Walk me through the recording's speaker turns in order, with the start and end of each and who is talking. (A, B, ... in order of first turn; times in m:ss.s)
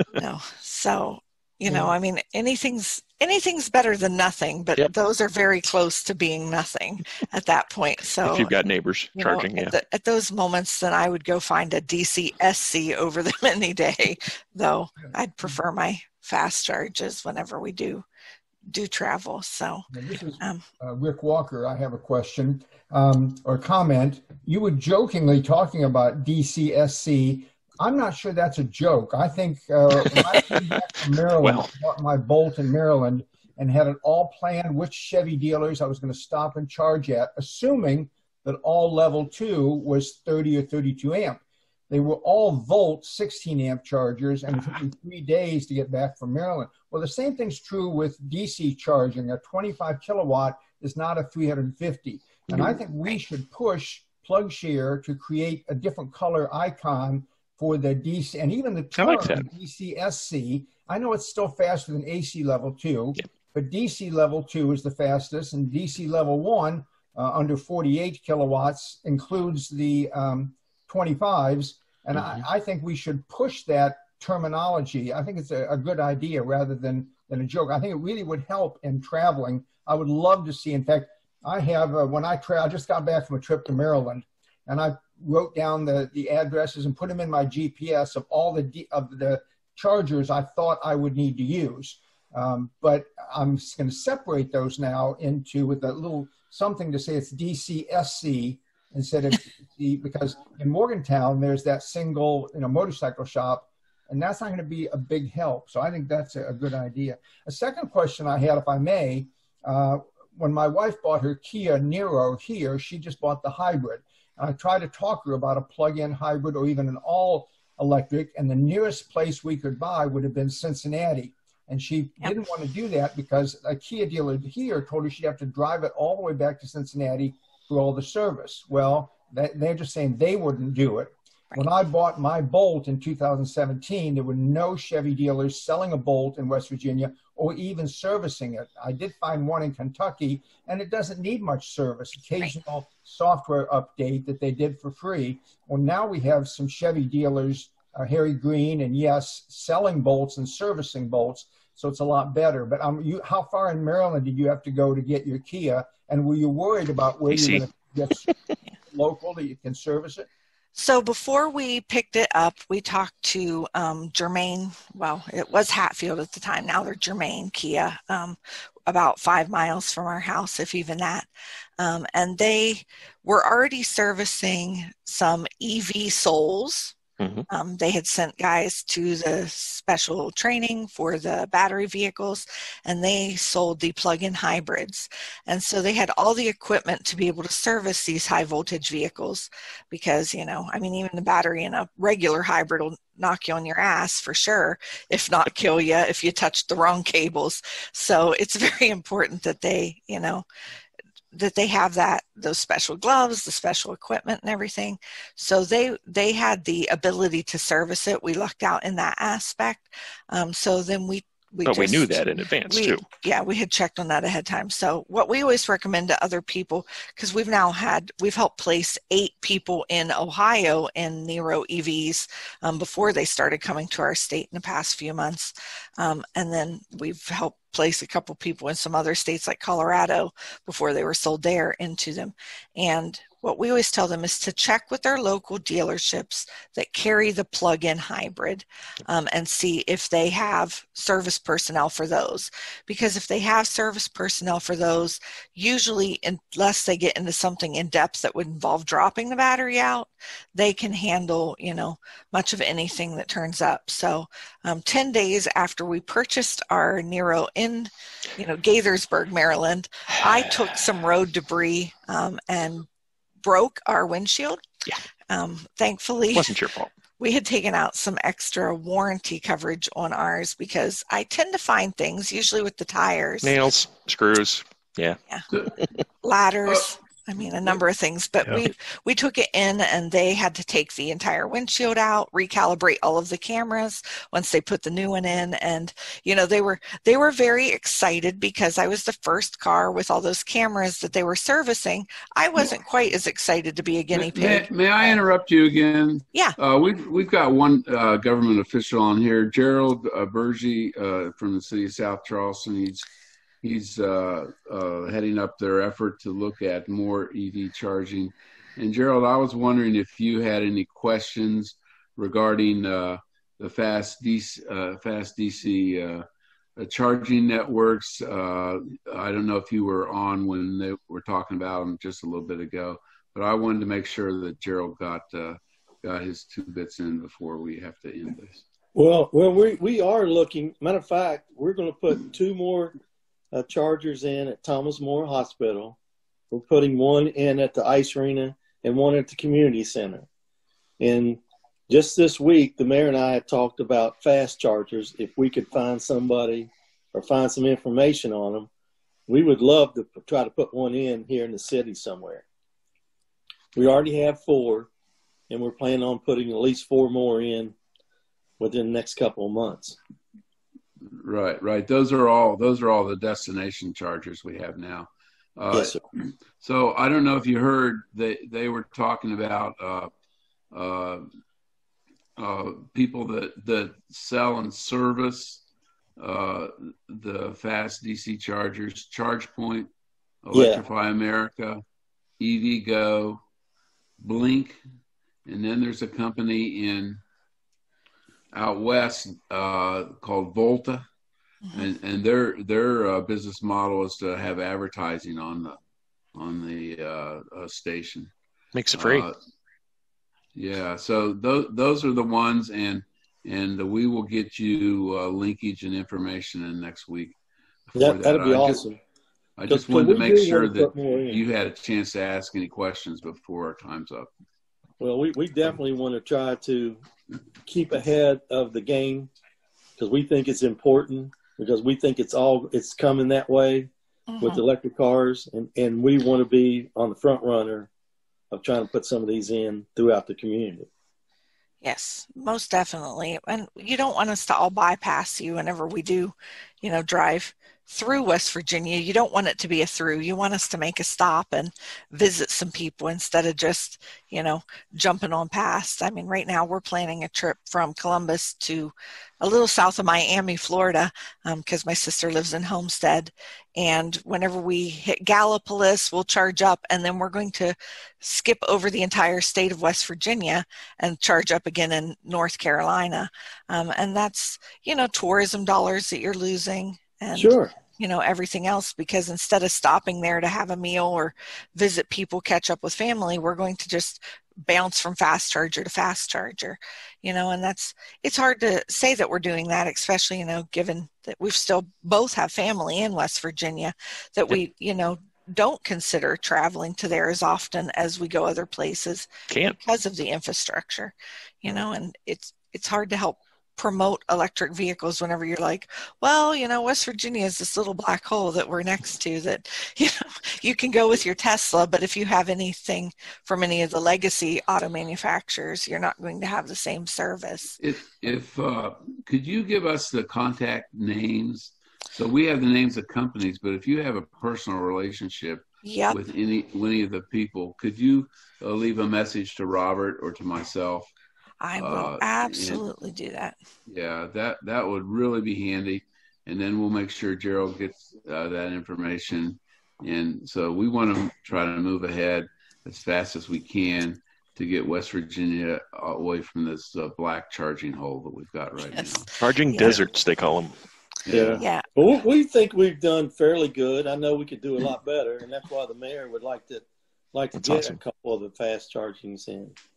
0:00.2-0:08.5 A
0:08.2-0:09.8 B
0:09.1-0:18.0 A
0:18.7-0:19.9 A
0:19.9-2:38.3 C
0:20.4-0:20.6 A
0:31.4-0:31.7 B
0:52.5-0:53.2 B
0:59.0-0:59.5 B
1:12.1-1:12.4 B
2:37.3-2:37.7 B
2:38.9-2:40.3 C
2:40.7-2:51.3 A
2:51.8-2:57.0 A
2:57.2-2:57.5 B
2:57.5-3:20.4 A
3:21.3-4:22.9 A
3:31.6-3:33.1 B
4:23.4-4:24.6 A
4:25.3-4:26.6 A
4:26.3-4:26.9 B
4:27.2-4:33.5 A
4:33.4-4:35.2 B
4:35.5-4:35.8 D
4:36.2-4:55.2 A
4:54.1-5:03.1 D
5:03.6-5:16.3 D
5:16.8-5:28.6 D
5:28.9-5:33.0 E
5:33.5-5:36.0 E
5:36.5-5:40.3 E
5:41.0-5:48.7 E
5:49.3-5:52.4 E
5:53.7-5:54.9 E
5:55.5-5:57.7 E
5:58.6-6:00.0 E
6:01.1-6:10.1 D
6:05.7-6:06.0 E
6:10.7-6:11.3 D
6:12.4-6:15.6 D
6:16.2-6:19.9 D
6:20.4-6:21.8 D
6:20.5-6:20.8 E
6:22.4-6:23.4 D
6:24.2-6:24.8 D
6:25.4-6:27.2 D
6:28.5-6:31.1 D
6:31.7-6:35.8 D
6:36.4-6:38.3 D
6:38.7-6:39.3 B
6:38.9-6:39.4 D
6:40.6-6:47.4 D
6:47.9-6:48.8 D
6:48.0-6:49.0 E
6:49.6-6:54.3 D
6:49.7-6:51.4 E
6:55.0-6:57.0 E
6:57.6-6:59.3 E
7:00.0-7:07.9 E
7:04.3-7:04.6 A
7:08.5-7:10.9 E
7:11.8-8:09.3 A
7:47.4-7:47.7 E
8:09.5-8:09.8 B
8:09.8-8:27.8 A
8:27.8-8:41.1 D
8:35.8-8:36.2 A
8:41.6-8:43.6 A
8:41.8-8:42.8 D
8:43.9-8:59.3 D
8:59.4-9:00.7 B
8:59.7-9:00.0 A
9:01.3-9:01.6 D
9:01.6-9:01.9 A
9:02.0-9:09.7 E
9:07.6-9:08.0 B